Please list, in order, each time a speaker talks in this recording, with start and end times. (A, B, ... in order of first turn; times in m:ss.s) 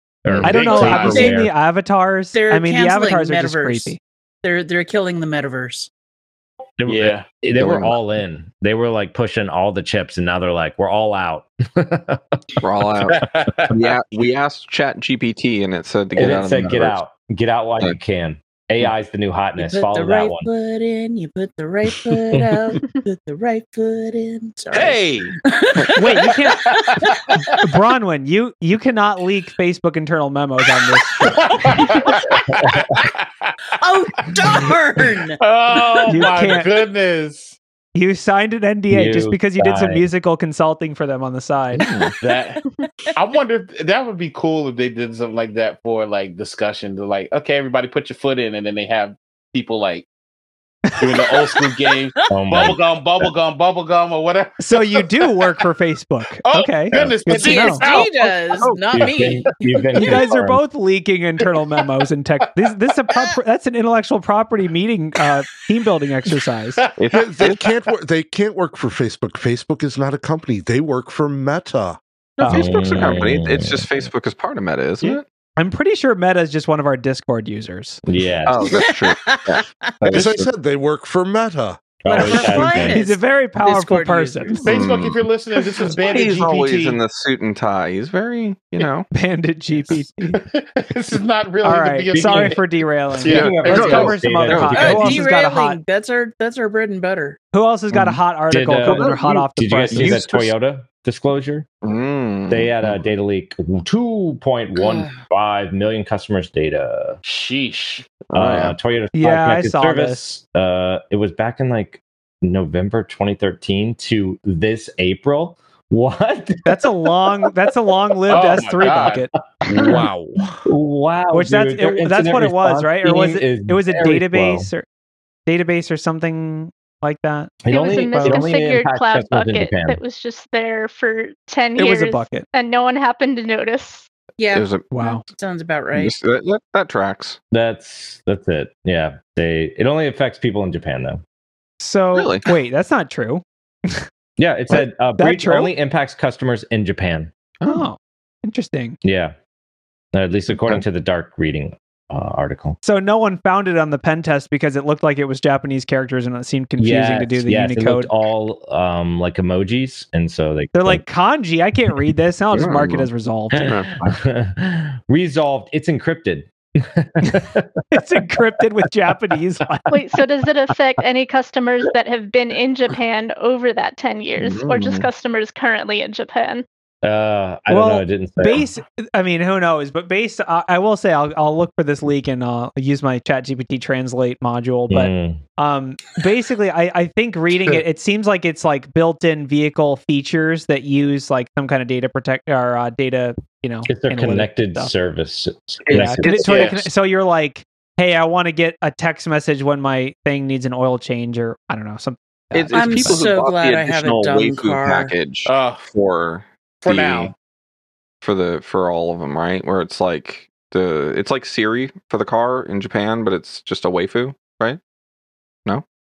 0:00.2-0:01.5 A
0:00.4-0:01.3 B
0:00.4-0:04.0 C
0:02.3-0:05.9 D
0:06.8-0:12.5 A
0:06.9-0:07.3 B
0:07.6-0:08.0 E
0:12.6-0:17.0 E
0:13.0-0:14.0 B
0:16.2-0:20.5 A
0:19.6-0:27.6 D
0:22.3-0:22.8 A
0:24.7-0:25.3 B
0:25.9-0:26.6 C
0:26.6-0:27.4 B
0:27.6-0:31.3 C
0:31.2-0:33.5 B
0:31.8-0:32.1 D
0:33.8-0:36.1 D
0:34.2-0:34.7 B
0:35.4-0:37.6 B
0:36.1-0:36.7 C
0:37.9-0:41.8 C
0:38.9-0:40.0 A
0:41.8-0:42.2 E
0:42.2-0:42.6 B
0:42.6-0:43.1 D
0:43.2-0:50.1 B
0:50.9-0:51.2 C
0:51.0-0:55.4 B
0:52.3-0:53.3 A
0:54.6-0:57.8 C
0:56.4-0:58.1 B
0:56.9-0:57.2 A
0:57.3-1:00.2 D
0:57.8-0:59.1 E
0:58.9-1:00.6 A
0:59.9-1:06.8 C
1:06.8-1:07.5 B
1:07.0-1:07.6 E
1:07.1-1:12.0 F
1:12.4-1:15.2 E
1:12.4-1:12.7 C
1:12.4-1:14.1 A
1:15.6-1:18.0 C
1:18.1-1:18.8 A
1:18.4-1:20.5 E
1:18.7-1:19.7 D
1:20.1-1:21.8 F
1:22.0-1:23.0 A
1:22.1-1:24.8 D
1:22.1-1:24.6 C
1:24.6-1:27.0 B
1:24.6-1:29.1 E
1:29.1-1:30.4 C
1:30.3-1:32.6 B
1:31.6-1:35.8 C
1:32.1-1:32.6 A
1:33.2-1:34.2 B
1:33.2-1:35.2 A
1:33.3-1:35.2 E
1:34.7-1:37.4 D
1:37.5-1:40.4 C
1:38.5-1:41.7 A
1:38.8-1:39.3 E
1:39.9-1:40.5 E
1:41.8-1:43.1 E
1:42.5-1:47.2 A
1:47.2-1:48.1 B
1:48.3-1:48.8 E
1:48.3-1:56.7 A
1:49.1-1:50.3 C
1:56.6-1:59.3 C
1:58.3-1:59.2 B
1:59.6-2:00.1 A
1:59.7-2:00.6 F
2:00.6-2:04.7 A
2:01.3-2:04.8 C
2:05.5-2:08.4 C
2:07.6-2:10.0 A
2:07.7-2:14.1 G
2:11.8-2:12.4 C
2:14.4-2:16.2 D
2:14.5-2:14.9 E
2:14.9-2:15.2 C
2:15.9-2:17.4 E
2:17.5-2:21.2 A
2:21.8-2:24.0 C
2:22.1-2:22.4 E
2:24.4-2:27.3 A
2:24.7-2:25.7 C
2:27.6-2:27.9 E
2:27.6-2:29.0 C
2:29.0-2:29.3 A
2:30.1-2:32.8 A
2:32.8-2:38.1 C
2:36.8-2:41.0 A
2:40.7-2:43.7 C
2:42.5-2:43.1 E
2:43.6-2:47.8 A
2:43.6-2:44.2 E
2:47.9-2:50.0 C
2:49.9-2:56.6 G
2:54.4-2:55.1 E
2:57.0-2:58.7 A
2:57.7-3:14.9 C
3:04.9-3:05.4 A
3:13.9-3:16.6 A
3:15.9-3:16.5 E
3:15.9-3:23.2 C
3:16.3-3:16.8 B
3:22.5-3:27.3 E
3:22.7-3:25.1 D
3:25.4-3:25.8 B
3:26.8-3:27.3 B
3:28.2-3:34.8 E